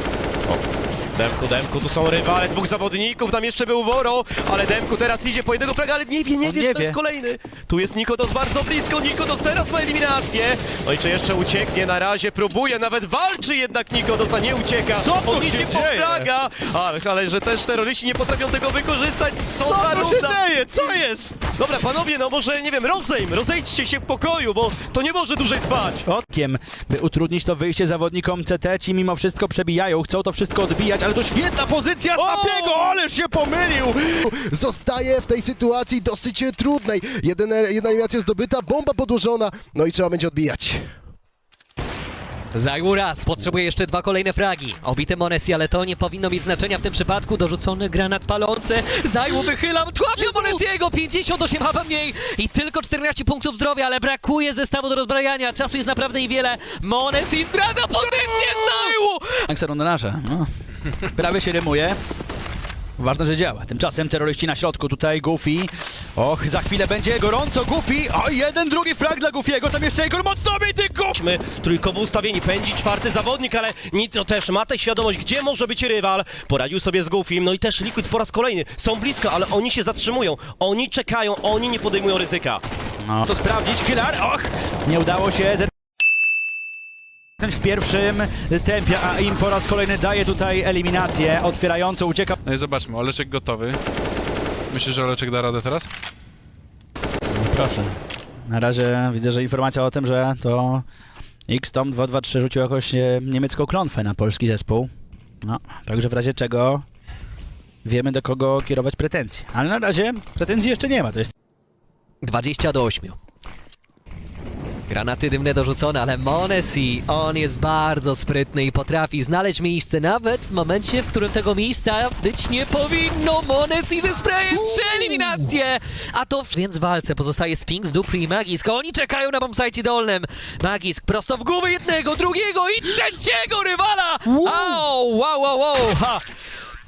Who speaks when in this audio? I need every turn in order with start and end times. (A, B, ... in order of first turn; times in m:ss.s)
0:01.1-0:21.0 A
0:06.4-0:07.0 B
0:15.0-0:16.3 B
0:19.7-0:21.4 B
0:21.5-0:26.0 A
0:26.0-0:34.0 B
0:32.2-0:32.9 A
0:34.2-0:40.8 C
0:42.5-0:59.4 D
0:50.2-0:50.5 C
0:59.5-1:00.5 B
1:01.0-1:02.0 B
1:03.0-1:11.2 B
1:11.1-1:22.6 A
1:23.0-1:25.7 B
1:27.4-1:32.4 B
1:32.4-1:33.8 E
1:34.7-1:35.9 E
1:37.3-1:40.8 B
1:41.5-1:44.9 B
1:45.4-1:46.8 B
1:47.8-1:51.3 B
1:52.2-1:53.2 D
1:54.9-2:16.2 D